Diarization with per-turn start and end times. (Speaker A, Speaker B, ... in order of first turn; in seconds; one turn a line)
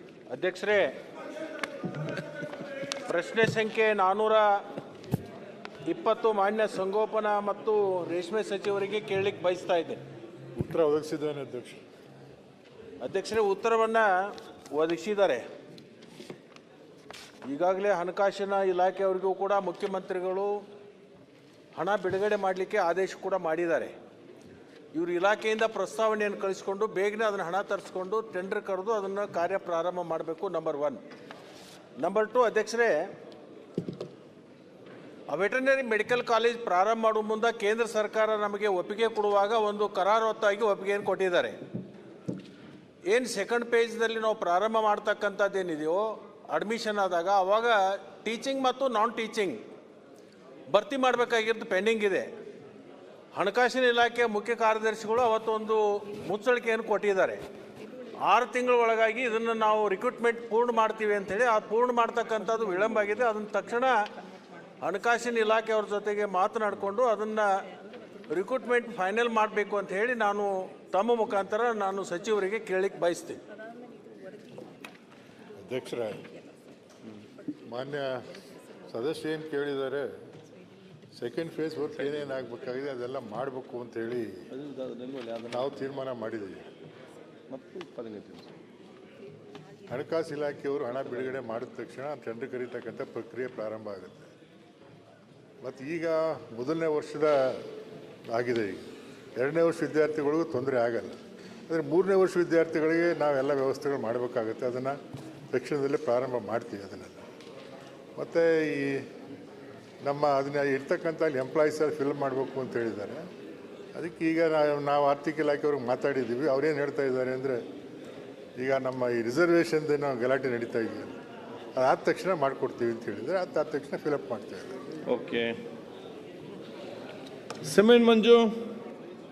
Speaker A: 0.3-0.9
Speaker A: 3.1-4.5
Speaker A: 5.9-10.0
Speaker B: 10.6-11.8
Speaker A: 13.0-14.1
Speaker A: 14.7-15.4
Speaker A: 17.4-20.5
Speaker A: 21.7-23.9
Speaker A: 24.9-31.0
Speaker A: 32.0-33.0
Speaker A: 35.3-41.6
Speaker A: 43.1-49.6
Speaker A: 50.7-52.3
Speaker A: 53.3-57.4
Speaker A: 58.2-64.0
Speaker A: 64.8-67.5
Speaker A: 68.3-73.4
Speaker B: 75.6-76.3
Speaker B: 77.6-80.1
Speaker B: 81.1-84.5
Speaker C: 84.5-85.7
Speaker B: 85.5-86.7
Speaker C: 87.5-88.5
Speaker B: 89.9-94.3
Speaker B: 95.6-97.6
Speaker B: 98.3-101.2
Speaker B: 101.7-105.0
Speaker B: 105.5-107.2
Speaker B: 108.2-109.1
Speaker B: 110.0-113.2
Speaker B: 113.9-117.6
Speaker B: 118.6-121.1
Speaker B: 121.7-124.7
Speaker C: 125.1-125.5
Speaker C: 127.7-128.5